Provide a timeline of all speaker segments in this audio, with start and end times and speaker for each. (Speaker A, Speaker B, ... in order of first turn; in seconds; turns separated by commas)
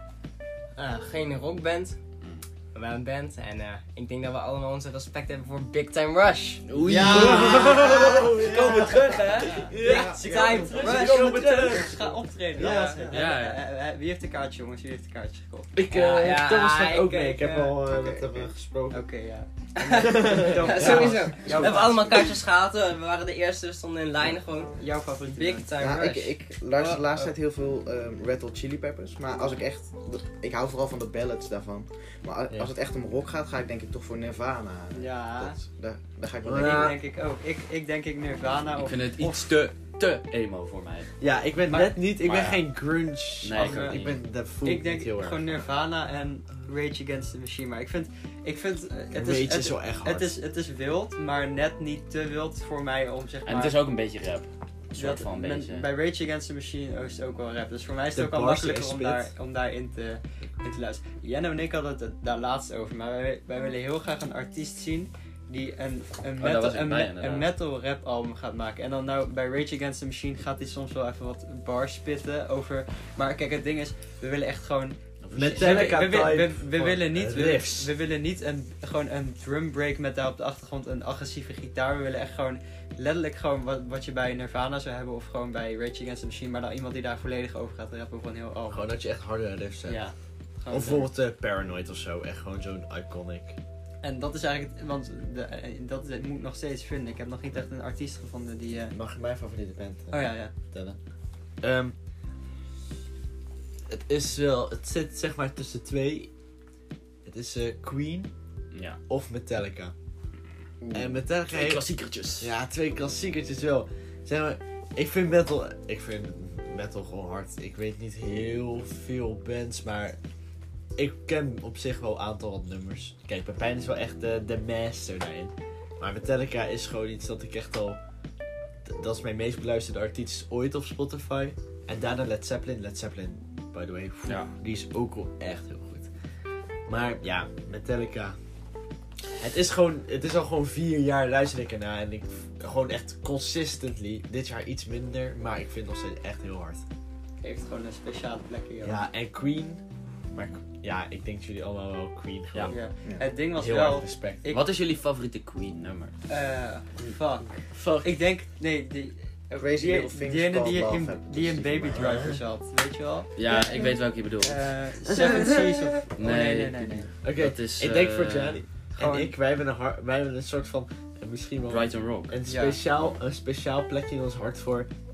Speaker A: 0.8-6.6, Speaker B: 2.2-2.5, Speaker B: 6.7-7.9, Speaker C: 6.7-13.3, Speaker D: 6.9-11.0, Speaker A: 7.2-7.9, Speaker B: 8.5-9.7, Speaker A: 9.2-11.9, Speaker E: 10.2-15.7, Speaker A: 12.6-12.9, Speaker B: 13.1-13.6, Speaker C: 15.7-19.0, Speaker A: 15.9-17.8, Speaker D: 17.9-18.5, Speaker E: 18.9-22.3, Speaker A: 19.8-26.3, Speaker C: 19.8-21.3, Speaker D: 20.8-21.9, Speaker E: 24.8-25.7, Speaker D: 25.8-36.9, Speaker E: 26.8-27.3, Speaker E: 34.9-35.6, Speaker C: 36.4-37.0, Speaker E: 36.5-39.7, Speaker B: 38.8-41.1, Speaker C: 41.2-45.6, Speaker E: 41.7-42.1, Speaker B: 42.2-42.8, Speaker B: 43.4-44.3, Speaker E: 43.5-53.8, Speaker C: 49.1-50.3, Speaker B: 53.5-55.9, Speaker E: 55.0-88.8, Speaker C: 58.1-59.3, Speaker B: 66.4-67.5, Speaker B: 75.2-76.3, Speaker C: 75.3-77.9, Speaker C: 88.7-90.0, Speaker E: 89.8-91.1, Speaker C: 90.7-93.6, Speaker E: 94.0-99.0, Speaker C: 98.9-101.0, Speaker E: 100.1-100.5, Speaker C: 101.6-102.0, Speaker C: 103.9-106.3, Speaker C: 107.2-108.3, Speaker B: 108.7-109.0, Speaker C: 109.0-109.9, Speaker D: 110.8-111.2, Speaker C: 110.9-111.8, Speaker B: 111.5-112.5, Speaker C: 112.4-120.2, Speaker C: 121.0-128.0, Speaker C: 128.8-136.1, Speaker B: 134.2-134.5, Speaker C: 136.8-138.4, Speaker C: 139.4-146.8, Speaker E: 147.4-149.0, Speaker C: 148.8-152.9, Speaker E: 152.7-154.6, Speaker C: 153.5-154.4, Speaker B: 154.4-156.1, Speaker E: 156.3-163.5, Speaker C: 157.0-158.2, Speaker D: 159.6-162.3, Speaker C: 161.9-162.4, Speaker B: 163.3-164.7, Speaker E: 164.4-167.1, Speaker C: 165.1-165.9, Speaker B: 166.1-168.6, Speaker C: 167.2-174.9, Speaker E: 168.9-169.3, Speaker B: 171.7-172.4, Speaker E: 172.4-172.8